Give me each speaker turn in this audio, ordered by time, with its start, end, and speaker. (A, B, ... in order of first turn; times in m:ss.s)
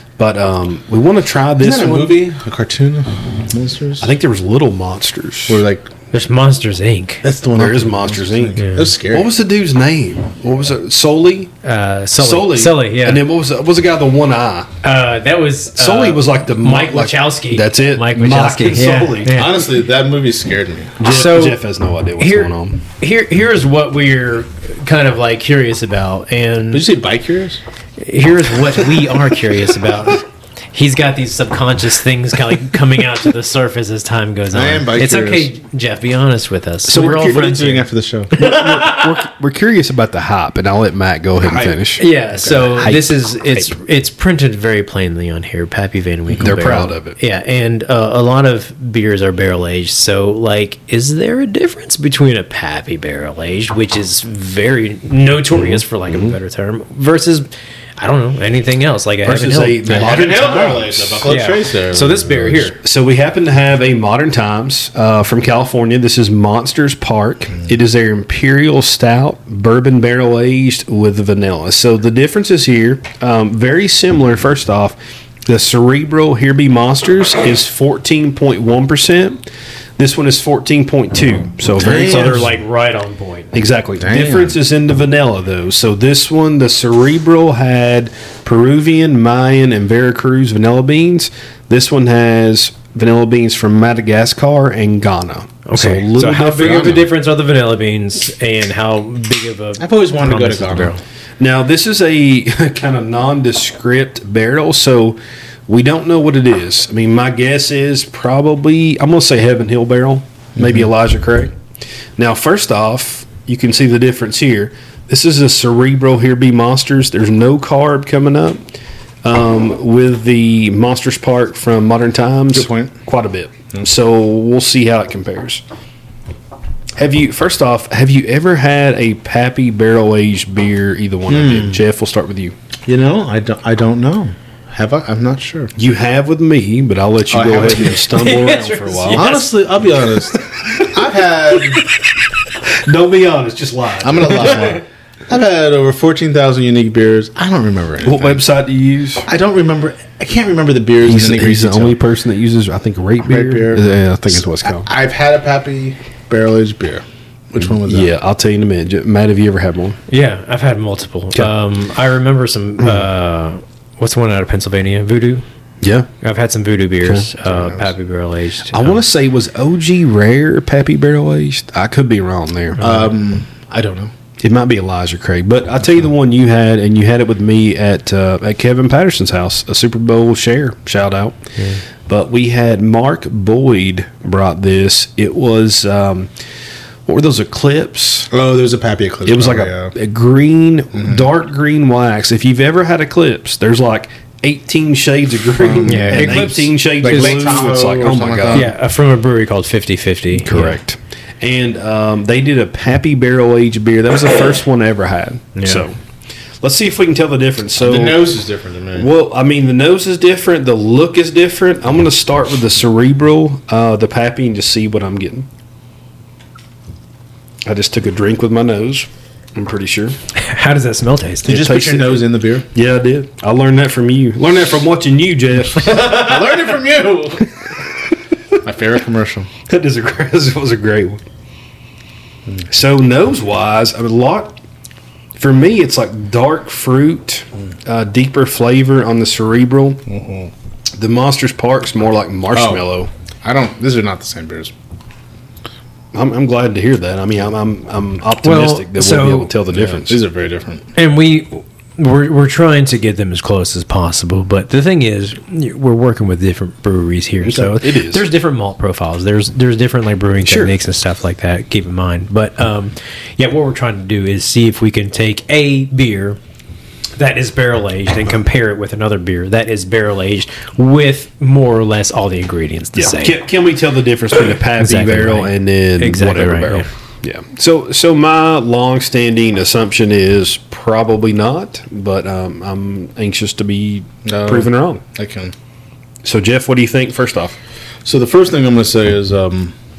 0:00.2-0:02.2 A
0:01.6-0:04.1 B
0:04.0-0:05.6 A
0:05.5-0:05.9 B
0:06.1-0:07.2 C
0:07.2-0:09.3 B
0:07.5-0:11.5 A
0:08.6-0:08.9 C
0:11.6-0:13.2 C
0:12.2-0:14.7 A
0:14.8-0:19.6 C
0:15.8-0:19.3 A
0:19.3-0:20.9 B
0:21.0-0:22.8 A
0:21.0-0:21.6 C
0:22.2-0:26.8 C
0:26.7-0:27.6 B
0:28.0-0:37.8 C
0:34.5-0:35.5 B
0:36.9-0:37.6 A
0:37.0-0:38.3 B
0:38.4-0:39.1 C
0:38.4-0:42.0 A
0:41.4-0:43.1 B
0:42.0-1:02.8 C
0:46.4-0:47.2 A
0:56.1-0:56.4 A
0:59.2-1:01.4 A
0:59.8-1:02.7 B
1:02.8-1:19.4 A
1:20.0-1:22.5 A
1:21.8-1:22.5 B
1:21.9-1:23.5 C
1:23.5-1:37.1 A
1:24.0-1:24.6 B
1:35.6-1:41.0 C
1:36.2-1:37.1 B
1:39.8-1:40.9 B
1:41.4-1:51.5 A
1:50.6-1:50.9 B
1:52.2-1:58.6 A
1:59.2-2:05.6 A
2:02.5-2:02.9 B
2:07.0-2:12.5 A
2:11.3-2:11.8 B
2:12.9-2:15.7 B
2:15.8-2:19.4 A
2:17.3-2:18.3 B
2:17.9-2:19.5 C
2:19.1-2:21.9 B
2:22.8-2:24.8 A
2:24.0-2:28.4 B
2:28.0-2:29.3 A
2:29.2-2:32.0 B
2:31.0-2:34.9 A
2:33.2-2:38.1 B
2:37.6-2:40.0 A
2:40.1-2:45.4 C
2:45.8-2:46.1 A
2:46.2-2:49.0 C
2:47.0-2:47.3 A
2:47.4-2:47.9 B
2:48.7-2:52.8 A
2:52.8-2:53.1 C
2:52.8-2:54.1 B
2:54.4-3:01.4 A
3:02.1-3:06.3 A
3:07.1-3:08.3 A
3:08.3-3:09.9 B
3:09.2-3:18.7 A
3:11.0-3:11.3 B
3:15.4-3:18.7 B
3:15.9-3:16.7 C
3:18.5-3:20.8 C
3:20.4-3:25.9 A
3:25.6-3:25.8 C
3:26.6-3:28.3 A
3:27.8-3:29.1 B
3:28.9-3:35.5 A
3:37.6-3:40.1 A
3:40.4-3:41.6 C
3:41.4-3:46.3 A
3:41.4-3:42.6 B
3:45.9-3:47.7 B
3:48.6-3:49.5 B
3:49.7-3:51.2 A
3:52.7-3:54.6 A
3:55.4-4:00.0 A
4:00.1-4:00.5 B
4:01.0-4:03.1 A
4:02.5-4:04.7 B
4:06.1-4:10.2 A
4:08.4-4:09.5 C
4:09.7-4:10.8 B
4:10.9-4:26.4 C
4:17.4-4:18.2 A
4:20.5-4:20.7 A
4:27.2-4:33.4 C
4:33.0-4:45.0 A
4:34.8-4:36.9 C
4:44.2-4:45.5 B
4:46.2-4:47.6 A
4:48.0-4:49.7 B